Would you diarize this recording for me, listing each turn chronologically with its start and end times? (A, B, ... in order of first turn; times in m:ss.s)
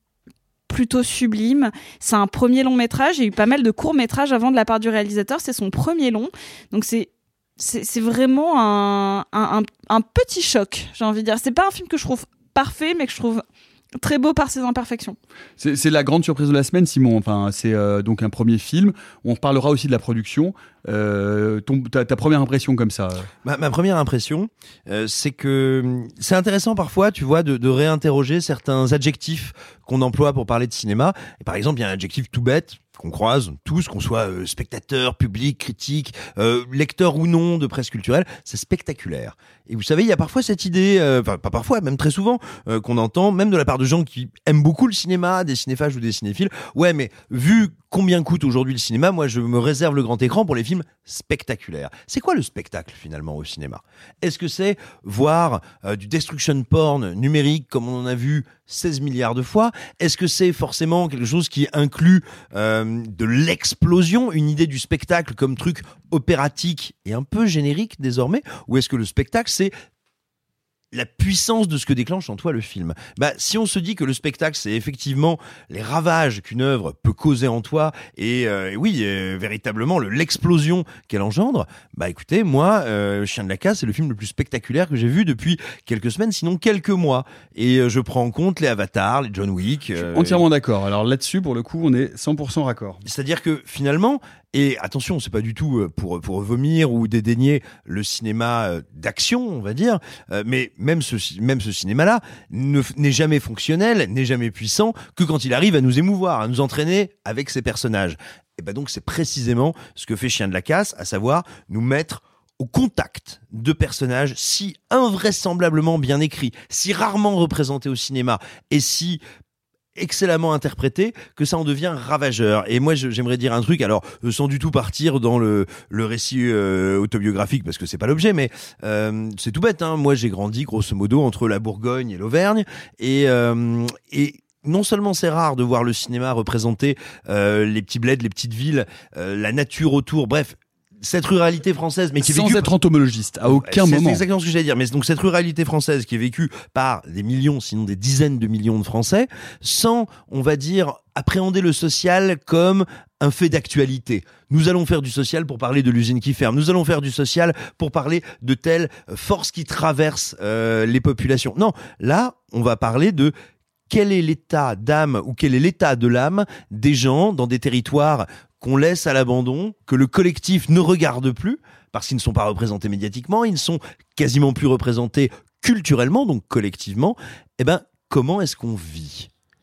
0:00.7-0:13.4 A
0:14.0-0:15.2 A
0:15.6-0:23.3 B
0:23.4-1:09.7 C
1:10.9-1:30.4 C
1:30.0-1:33.0 B
1:33.0-1:59.2 C
2:00.0-2:22.7 C
2:22.2-2:24.2 B
2:23.5-2:43.3 C
2:43.9-2:59.3 C